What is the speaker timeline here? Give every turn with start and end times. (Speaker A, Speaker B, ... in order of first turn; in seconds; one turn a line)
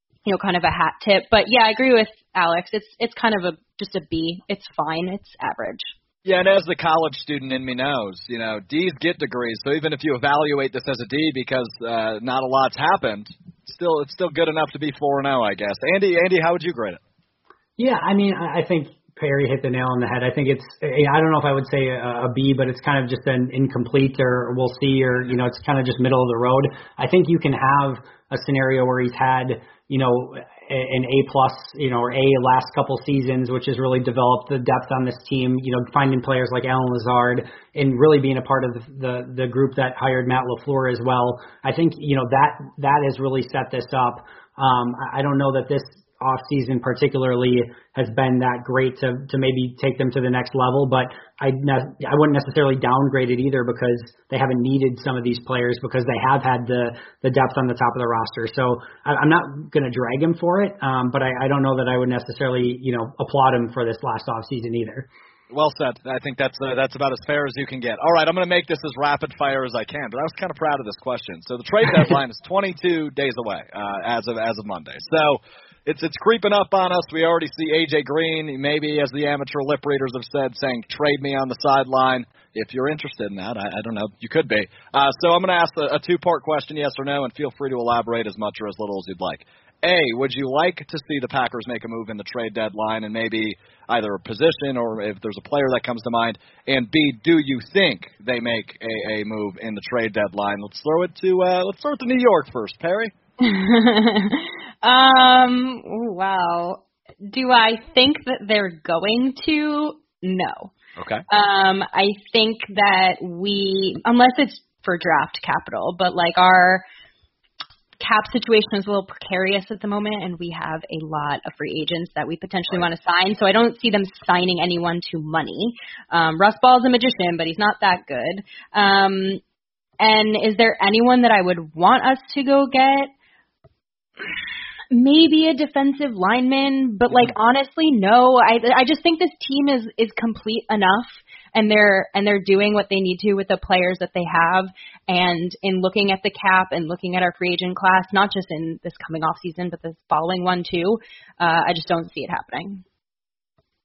Speaker A: 0.2-5.9
Speaker B: 6.2-17.0
Speaker C: 17.8-65.1
Speaker B: 65.5-103.1
Speaker A: 103.4-110.7
Speaker B: 111.0-111.2
Speaker A: 111.3-116.8
Speaker A: 118.0-129.4
Speaker A: 130.0-133.1
Speaker A: 134.9-152.8